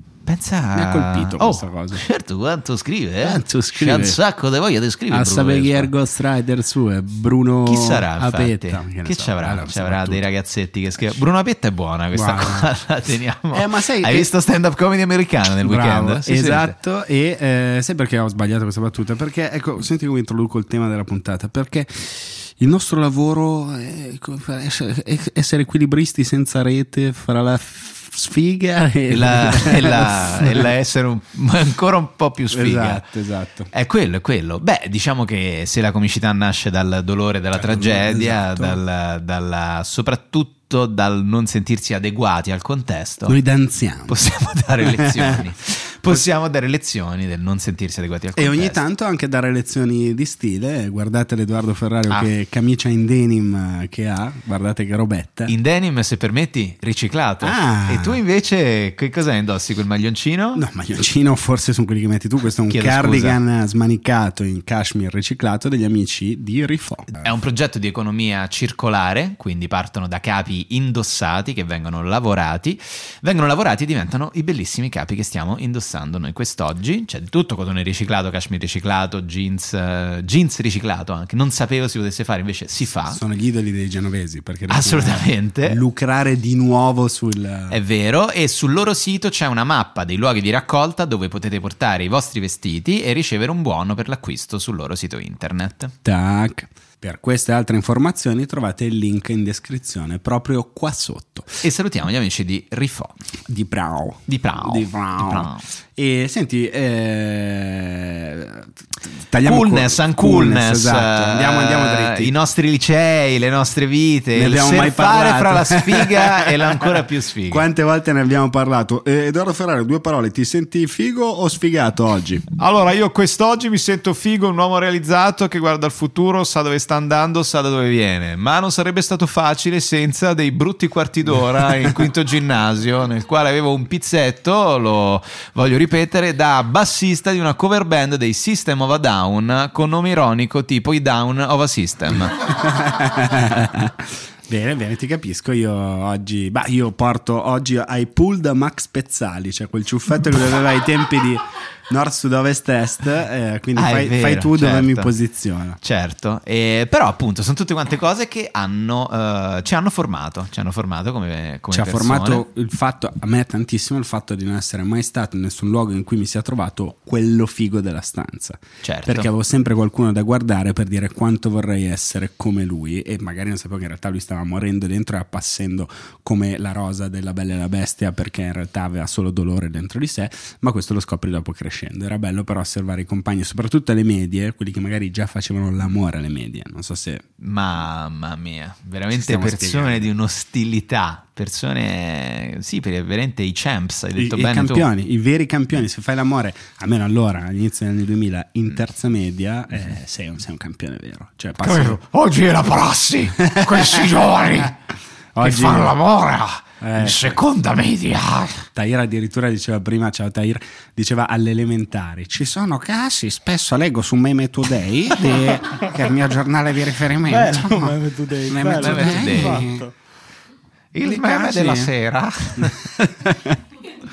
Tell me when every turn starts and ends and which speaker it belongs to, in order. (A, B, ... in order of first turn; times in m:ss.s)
0:00.2-0:05.9 A
0:00.7-0:02.0 B
0:03.2-0:04.2 B
0:05.1-0:10.2 B
0:07.6-0:16.7 A
0:12.1-0:12.7 B
0:13.5-0:14.3 B
0:15.6-0:30.7 B
0:29.1-0:33.0 A
0:32.5-0:33.7 B
0:33.7-0:43.4 A
0:37.5-0:38.8 B
0:43.2-0:44.2 B
0:44.1-0:48.8 A
0:44.8-0:45.4 B
0:48.4-0:55.5 B
0:55.5-1:00.6 A
0:57.4-0:58.2 B
1:00.5-1:07.2 B
1:02.7-1:03.4 A
1:07.2-1:23.2 A
1:23.0-1:27.8 B
1:24.7-1:25.8 A
1:27.7-1:35.9 A
1:36.0-1:41.6 B
1:41.6-1:43.2 A
1:43.5-1:52.3 B
1:44.3-1:45.6 A
1:49.4-1:57.6 A
1:54.3-2:02.4 B
2:02.6-2:22.5 A
2:22.5-2:35.8 B
2:33.8-2:35.1 A
2:35.8-2:42.4 A
2:41.7-3:07.2 B
2:48.8-2:49.3 A
3:07.4-3:14.9 A
3:09.1-3:10.1 B
3:14.2-3:22.0 B
3:21.6-3:24.7 A
3:23.4-3:24.2 B
3:25.3-3:26.0 B
3:25.4-3:28.6 A
3:26.8-3:27.4 B
3:28.7-3:38.0 B
3:37.2-3:39.9 C
3:38.5-3:39.8 B
3:38.7-3:39.7 A
3:40.9-3:42.9 A
3:41.0-3:41.9 B
3:43.0-3:43.5 B